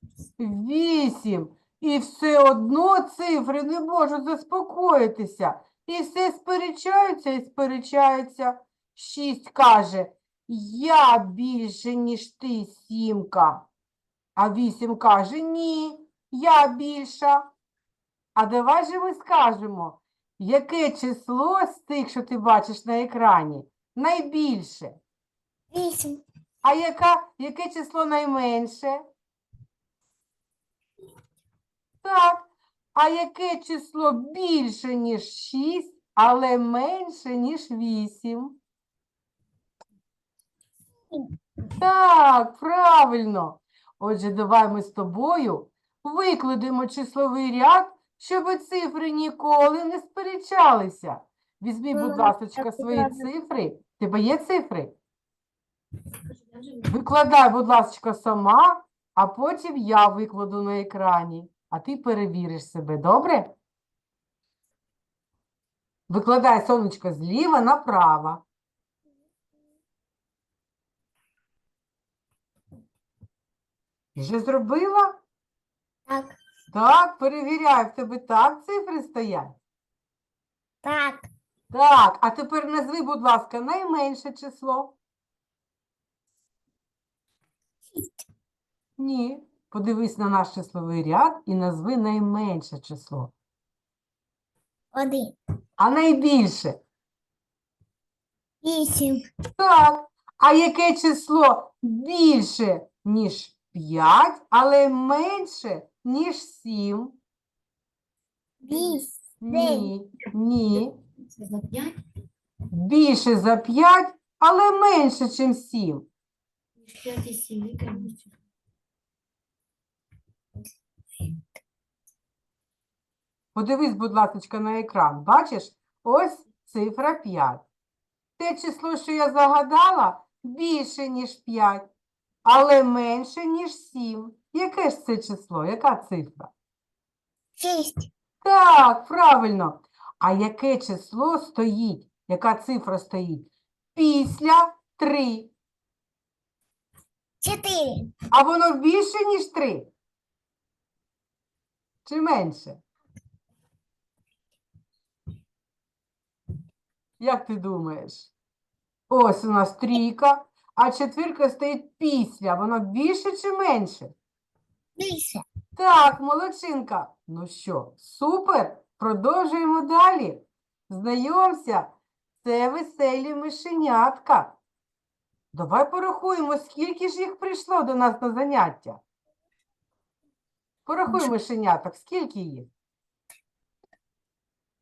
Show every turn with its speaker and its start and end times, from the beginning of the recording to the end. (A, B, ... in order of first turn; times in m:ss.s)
0:00.4-0:13.7 A
0:14.4-0:17.5 A
0:18.4-0:25.0 A
0:25.7-0:26.2 B
0:26.6-0:29.0 A
0:32.0-0:38.6 A
0:41.1-0:41.4 B
0:41.8-0:54.9 A
0:51.9-0:53.3 B
0:56.9-1:03.5 A
1:06.1-1:08.4 A
1:14.2-1:15.2 A
1:16.1-1:16.3 B
1:16.7-1:19.6 A
1:20.8-1:21.3 B
1:21.7-1:25.0 A
1:27.9-1:28.2 B
1:29.0-1:33.3 A
1:34.9-1:35.4 B
1:35.8-1:36.8 A
1:38.6-1:39.3 B
1:39.6-1:47.2 A
1:48.6-1:49.9 B
1:49.4-1:51.0 A
1:51.3-1:52.0 C
1:52.7-1:56.1 A
1:56.8-1:58.3 C
2:03.6-2:07.6 A
2:08.4-2:11.9 A
2:12.5-2:16.5 A
2:17.6-2:18.1 B
2:18.4-2:25.5 A
2:27.4-2:28.1 B
2:28.3-2:29.9 A
2:32.0-2:32.8 A
2:37.2-2:38.3 A
2:39.1-2:44.1 A
2:45.0-2:45.4 B
2:45.8-2:54.6 A
2:55.5-2:59.0 A
3:00.9-3:02.7 A